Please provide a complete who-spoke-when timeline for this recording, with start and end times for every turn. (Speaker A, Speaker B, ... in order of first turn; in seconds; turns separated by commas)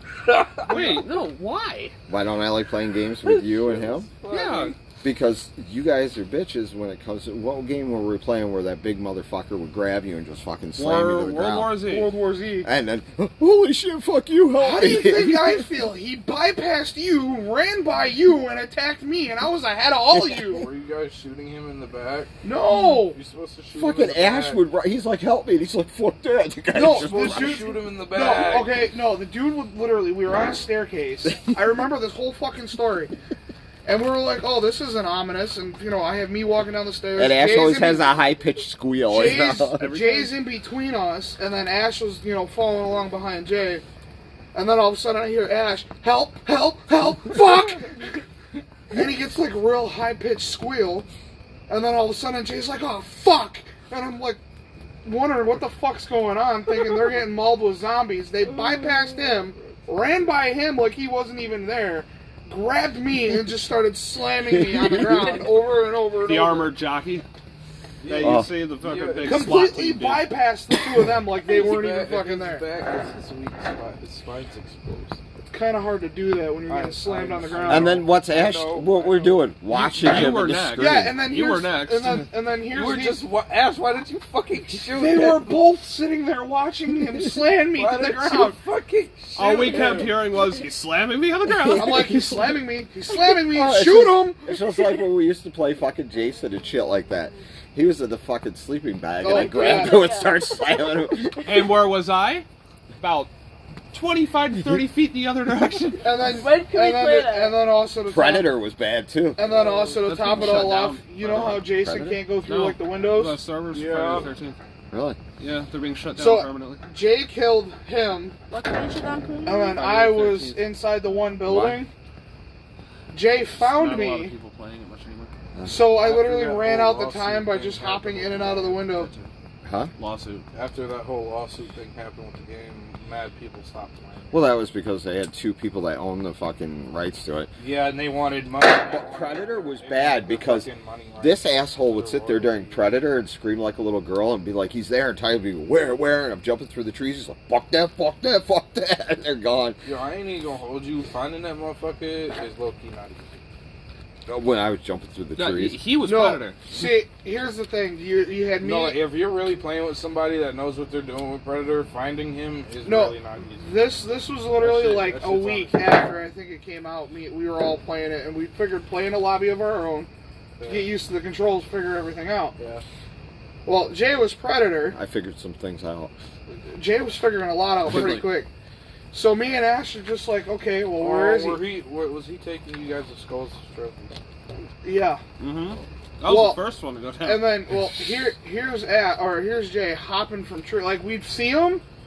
Speaker A: 0.2-1.1, Speaker B: 0.7-1.9, Speaker C: 2.1-4.1, Speaker A: 3.2-4.8, Speaker B: 4.3-4.8, Speaker C: 5.0-11.8, Speaker B: 10.8-12.1, Speaker D: 11.8-12.7, Speaker C: 12.6-15.7, Speaker D: 14.6-20.7, Speaker C: 20.1-20.6, Speaker A: 20.5-24.7, Speaker D: 22.4-23.2, Speaker C: 23.8-27.7, Speaker D: 26.7-33.1, Speaker A: 26.9-28.7, Speaker D: 33.9-38.1, Speaker C: 37.1-39.9, Speaker D: 39.1-43.8, Speaker B: 39.8-40.4, Speaker D: 44.5-48.2, Speaker D: 48.9-51.1, Speaker D: 51.7-54.4, Speaker D: 55.0-66.7, Speaker C: 64.5-65.4, Speaker B: 66.2-67.2, Speaker A: 68.0-69.6, Speaker B: 68.0-70.3, Speaker C: 68.2-68.5, Speaker D: 69.2-72.7, Speaker A: 71.5-75.2, Speaker D: 75.5-78.0, Speaker A: 76.7-79.5, Speaker C: 77.7-81.2, Speaker B: 79.7-82.3, Speaker D: 80.8-83.2, Speaker A: 82.7-85.5, Speaker D: 84.9-88.6, Speaker A: 87.7-90.2, Speaker B: 89.4-92.4, Speaker D: 91.7-94.5, Speaker C: 93.1-101.7, Speaker D: 99.2-100.1, Speaker E: 99.3-100.8, Speaker B: 101.5-102.5, Speaker B: 103.0-103.3, Speaker B: 103.9-106.2, Speaker D: 106.0-108.5, Speaker E: 106.2-107.6, Speaker C: 108.1-109.5, Speaker D: 109.4-113.4, Speaker A: 109.5-110.0, Speaker B: 110.0-111.7, Speaker C: 111.2-112.3, Speaker B: 112.4-114.6, Speaker A: 113.7-114.3, Speaker C: 114.9-115.2, Speaker B: 115.4-116.8, Speaker D: 116.2-118.4, Speaker E: 118.5-120.0, Speaker D: 119.5-121.9, Speaker B: 119.9-120.6, Speaker C: 121.4-121.8, Speaker D: 123.1-124.3, Speaker B: 123.6-125.3, Speaker C: 125.5-125.8, Speaker D: 125.7-129.1, Speaker A: 126.0-129.3, Speaker C: 129.6-129.9, Speaker B: 130.0-130.4, Speaker A: 130.5-134.5, Speaker C: 134.3-137.5, Speaker A: 137.6-142.9, Speaker C: 138.9-140.7, Speaker C: 141.2-149.8, Speaker A: 149.8-153.4, Speaker C: 154.3-155.8, Speaker B: 155.4-156.6, Speaker D: 156.0-159.0, Speaker A: 158.6-163.8, Speaker D: 162.8-170.1, Speaker A: 164.6-166.0, Speaker A: 170.6-170.9, Speaker D: 170.7-172.6, Speaker A: 172.6-172.8, Speaker D: 173.7-175.0, Speaker C: 174.9-176.1, Speaker D: 176.7-178.5, Speaker B: 177.8-178.3, Speaker D: 179.1-181.6, Speaker A: 181.0-184.2, Speaker D: 184.8-185.2, Speaker B: 185.4-187.6, Speaker D: 186.2-186.6, Speaker D: 187.2-191.8